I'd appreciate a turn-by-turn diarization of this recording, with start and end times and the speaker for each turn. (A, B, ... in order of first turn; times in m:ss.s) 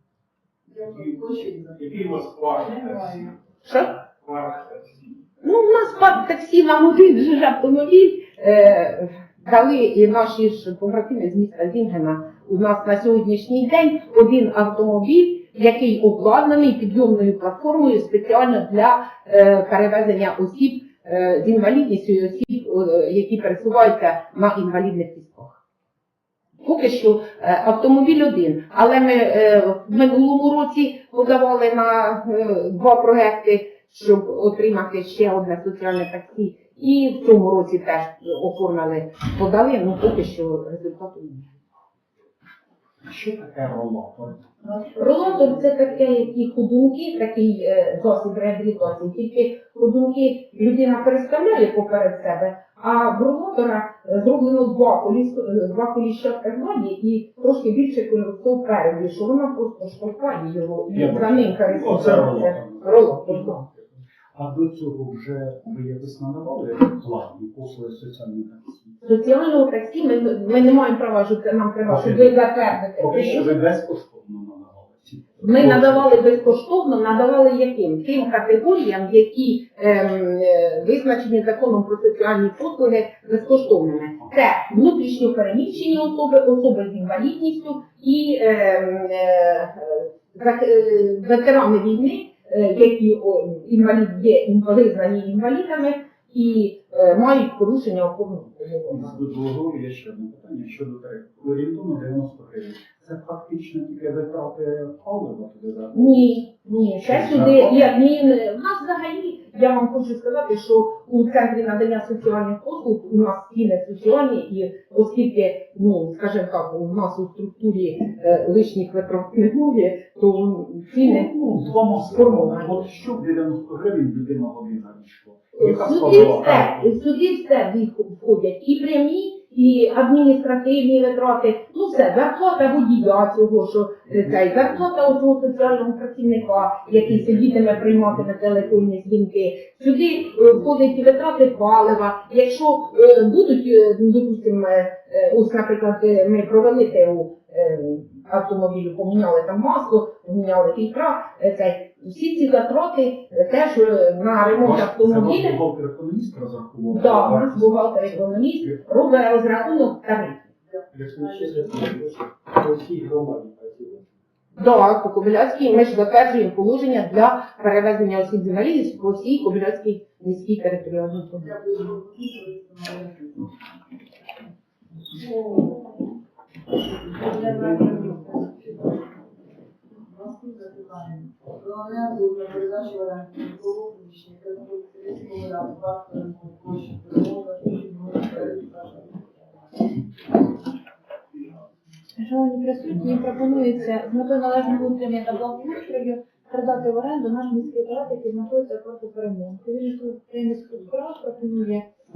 0:00.7-0:03.2 A
0:01.8-0:03.3 B
0:03.6-0:04.0 C
0:04.2-0:04.8 B
0:05.4-0:25.6 C
0:26.6-0:41.5 C
0:43.0-0:44.5 D
0:45.0-1:03.7 C
1:00.9-1:09.0 D
1:09.0-1:13.5 C
1:11.9-1:12.4 D
1:12.9-1:16.2 D
1:15.4-1:39.2 C
1:38.9-1:46.3 D
1:45.9-2:02.8 C
1:47.0-1:47.9 D
2:00.9-2:06.9 D
2:05.6-2:35.6 C
2:34.5-2:38.8 D
2:36.9-2:40.5 C
2:40.8-2:41.6 A
2:40.9-2:41.8 D
2:41.0-2:44.1 E
2:44.6-2:51.5 C
2:51.4-2:53.7 A
2:57.2-2:58.3 A
2:57.2-2:58.7 F
3:00.0-3:09.9 A
3:12.2-3:21.9 F